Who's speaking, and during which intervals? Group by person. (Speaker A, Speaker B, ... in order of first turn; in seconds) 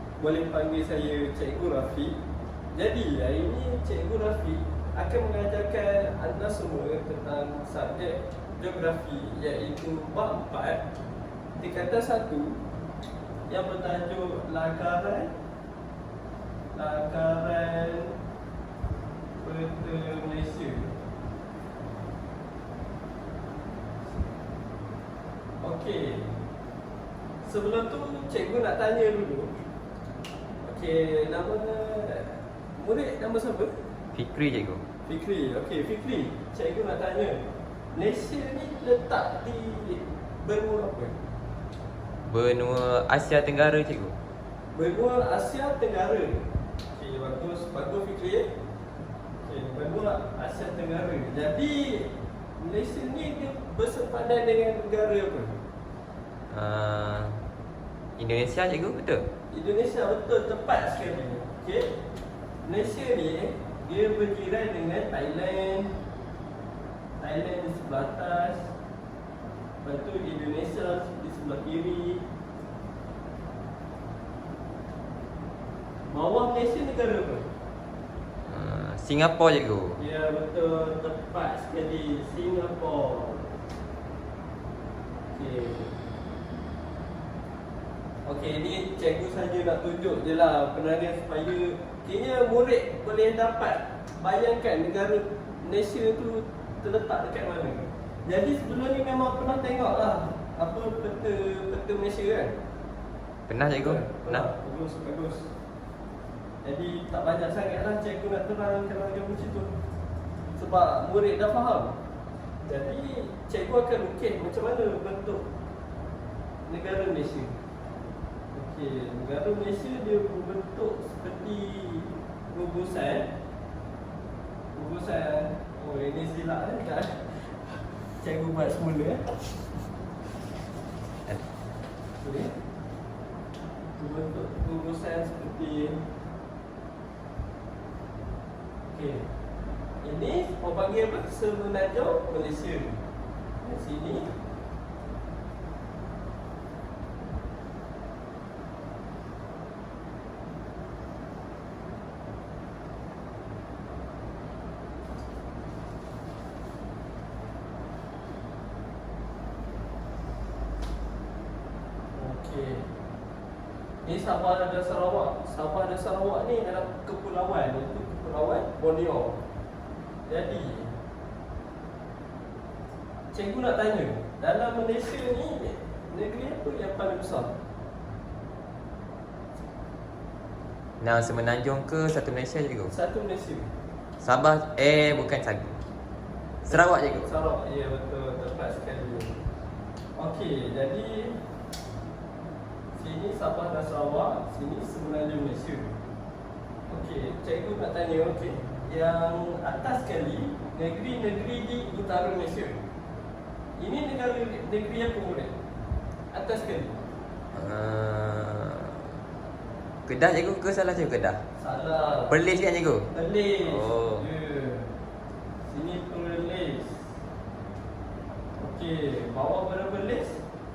Speaker A: 0.2-2.2, 2.7-10.8, 11.6-12.6, 13.5-15.3, 16.7-18.1, 19.4-20.9, 25.6-26.4, 27.4-29.6, 30.6-33.8, 35.0-41.2, 44.7-48.5, 49.5-55.6, 59.5-62.0, 62.6-66.0, 67.2-68.7, 69.8-72.2, 76.1-77.5, 80.0-83.5, 85.3-86.0, 88.2-102.6, 103.8-105.5, 106.6-109.7, 110.6-112.0, 112.6-115.5, 116.7-117.6, 118.5-123.3, 124.7-129.6, 132.2-132.6, 134.0-136.1, 138.9-139.3, 140.0-143.0, 143.6-144.3, 162.1-162.9, 164.0-169.4, 170.2-170.9, 173.3-177.6, 182.9-183.7, 186.7-189.4, 190.1-191.4, 193.0-195.9, 196.9-202.8, 203.8-205.5, 206.3-207.0, 211.6-212.4, 213.1-214.9, 215.7-217.1, 218.6-220.4
Speaker B: 34.1-34.8, 42.2-44.2, 56.5-57.5, 58.2-59.3, 78.5-80.0, 103.5-104.5, 181.0-182.9, 184.2-185.8, 186.6-187.3, 207.5-209.1, 210.1-211.4, 212.3-213.1, 213.7-214.2